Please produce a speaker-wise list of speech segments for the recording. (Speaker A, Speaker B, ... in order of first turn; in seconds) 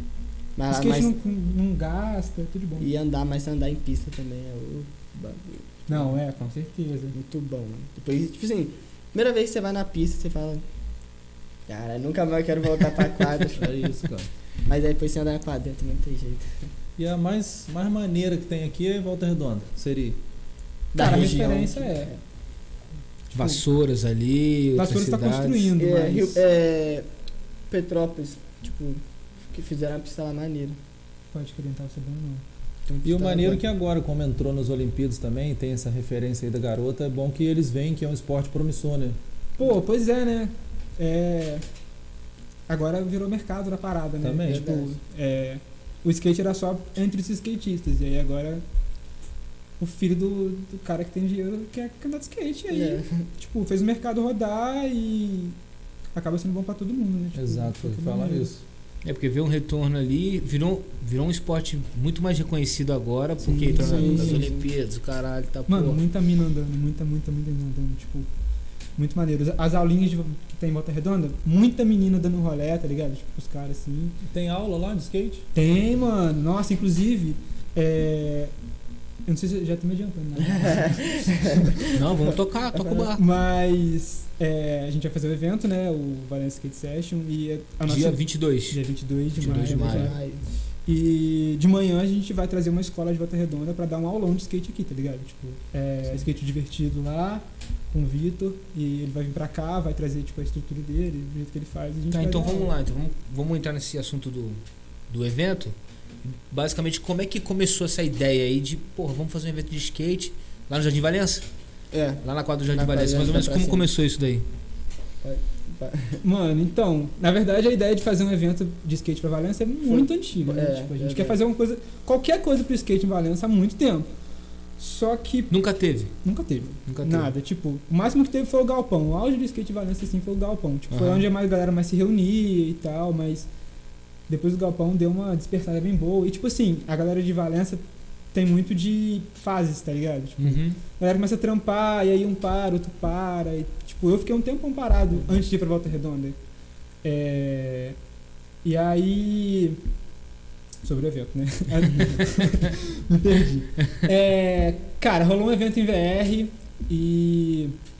Speaker A: 0.6-1.1, 2.8-6.1, 7.1-10.6, 11.7-13.9, 14.7-16.7, 20.9-22.2, 25.8-27.1, 27.7-30.8, 32.9-33.6, 44.4-44.9, 52.7-53.2, 63.5-64.7, 80.4-83.1, 89.7-90.5, 111.9-112.2, 112.7-113.9, 115.2-116.2, 119.9-121.4
Speaker B: 0.7-2.9, 5.9-7.2, 20.9-22.1, 23.3-23.6, 24.7-26.4, 31.3-32.4, 39.6-41.6, 42.7-48.6, 49.8-55.6, 56.1-58.5, 63.5-64.5, 65.7-68.3, 69.0-74.2, 75.5-78.5, 79.3-81.7, 83.2-90.2, 90.9-102.7, 116.2-124.1, 124.8-125.5, 126.2-133.5, 134.3-137.8, 138.3-146.4, 147.0-147.9, 148.6-149.8, 150.8-157.8
Speaker C: 13.5-14.3, 17.0-20.2, 33.0-39.2, 44.2-44.7, 57.3-58.6, 74.2-75.5
Speaker D: 23.3-25.7, 59.0-66.0, 81.9-83.2, 87.9-88.8, 89.4-90.1, 102.1-111.4, 112.2-114.4, 125.5-126.1, 126.9-127.3, 130.9-131.2, 140.4-140.8